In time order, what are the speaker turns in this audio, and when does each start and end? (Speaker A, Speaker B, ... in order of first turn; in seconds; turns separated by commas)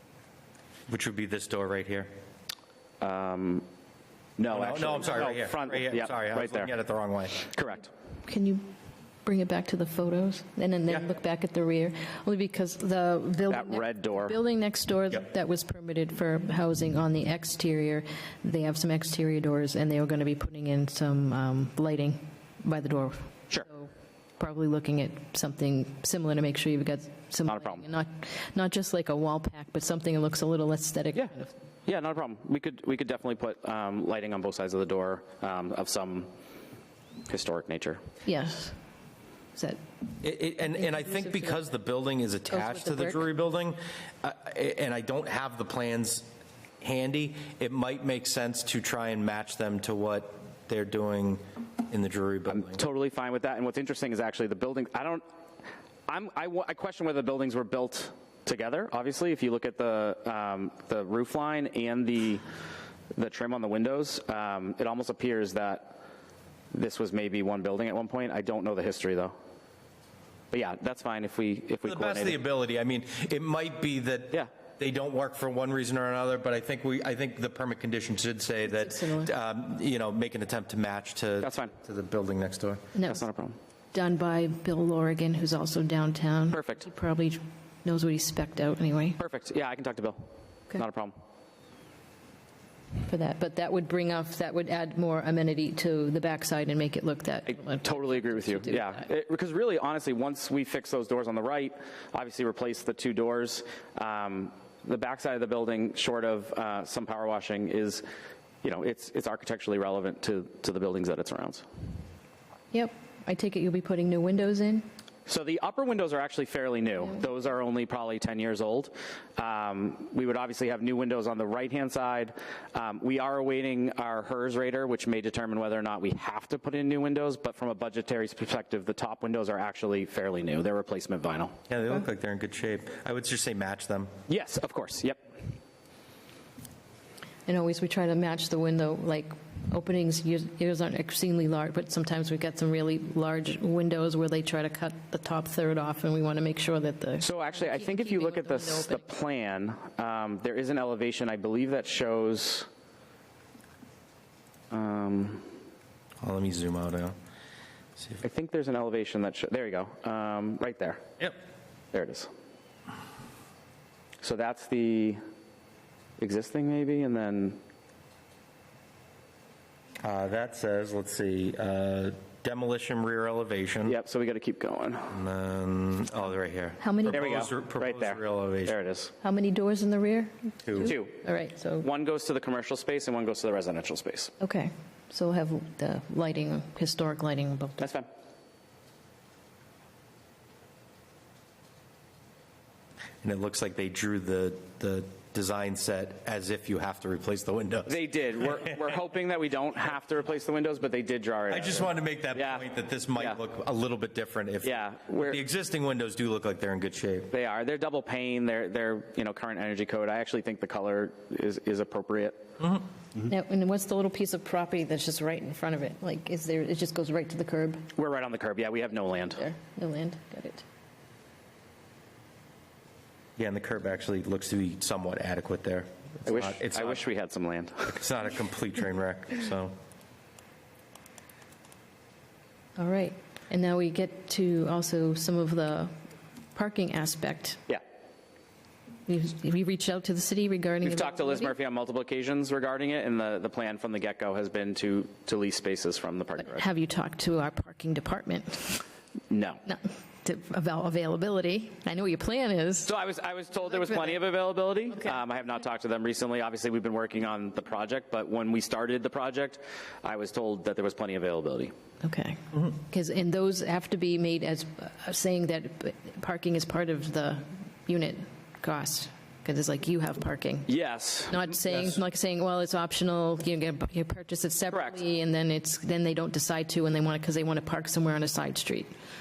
Speaker A: 0.9-2.1, Speaker B: 3.0-3.6, Speaker B: 4.4-6.7, Speaker A: 4.5-7.4, Speaker B: 7.4-7.9, Speaker C: 8.3-8.7, Speaker C: 9.2-31.5, Speaker B: 13.5-14.4, Speaker B: 27.5-27.9, Speaker B: 31.9-36.3, Speaker B: 37.3-38.0, Speaker C: 38.2-38.8, Speaker A: 40.2-46.3, Speaker C: 40.8-41.6, Speaker C: 42.5-43.2, Speaker A: 46.8-52.8, Speaker B: 52.5-55.2, Speaker B: 56.1-62.4, Speaker B: 63.1-66.0, Speaker B: 66.7-69.3, Speaker B: 70.5-72.4, Speaker A: 71.9-82.8, Speaker C: 78.6-79.3, Speaker B: 81.4-81.7, Speaker C: 82.9-83.3, Speaker B: 83.0-83.6, Speaker C: 83.9-89.2, Speaker B: 86.5-86.9, Speaker B: 89.2-91.2, Speaker C: 93.0-99.0, Speaker B: 97.5-108.0, Speaker B: 108.6-111.6, Speaker C: 112.7-114.9, Speaker B: 115.3-131.6, Speaker A: 131.7-134.1, Speaker B: 134.3-135.2, Speaker C: 137.5-149.1, Speaker B: 147.2-152.7, Speaker B: 154.7-155.5, Speaker A: 156.2-157.2, Speaker A: 158.0-158.2, Speaker B: 158.2-161.1, Speaker B: 161.9-162.3, Speaker B: 164.2-165.2, Speaker B: 166.2-167.6, Speaker A: 170.0-174.0, Speaker B: 173.8-175.2, Speaker A: 175.1-178.8, Speaker C: 176.8-177.4, Speaker B: 177.1-179.1, Speaker C: 179.2-181.9, Speaker A: 180.7-181.0, Speaker B: 180.8-181.2, Speaker B: 181.8-184.3, Speaker C: 184.4-187.9, Speaker B: 187.8-188.1, Speaker A: 193.2-198.0, Speaker B: 197.9-203.4, Speaker A: 201.5-207.3, Speaker B: 204.6-205.4, Speaker B: 207.3-212.5, Speaker C: 213.2-217.9, Speaker B: 217.9-219.4, Speaker C: 219.3-220.6, Speaker A: 223.4-227.0, Speaker B: 226.2-228.0, Speaker A: 227.9-229.7, Speaker C: 232.8-235.9, Speaker C: 236.6-237.6, Speaker C: 239.1-241.6, Speaker B: 240.8-246.6, Speaker C: 246.4-248.8, Speaker B: 249.3-249.6, Speaker C: 249.7-252.9, Speaker B: 252.8-261.7, Speaker C: 253.7-254.2, Speaker C: 262.0-270.7, Speaker B: 270.7-271.5, Speaker C: 271.3-278.9, Speaker B: 274.7-275.0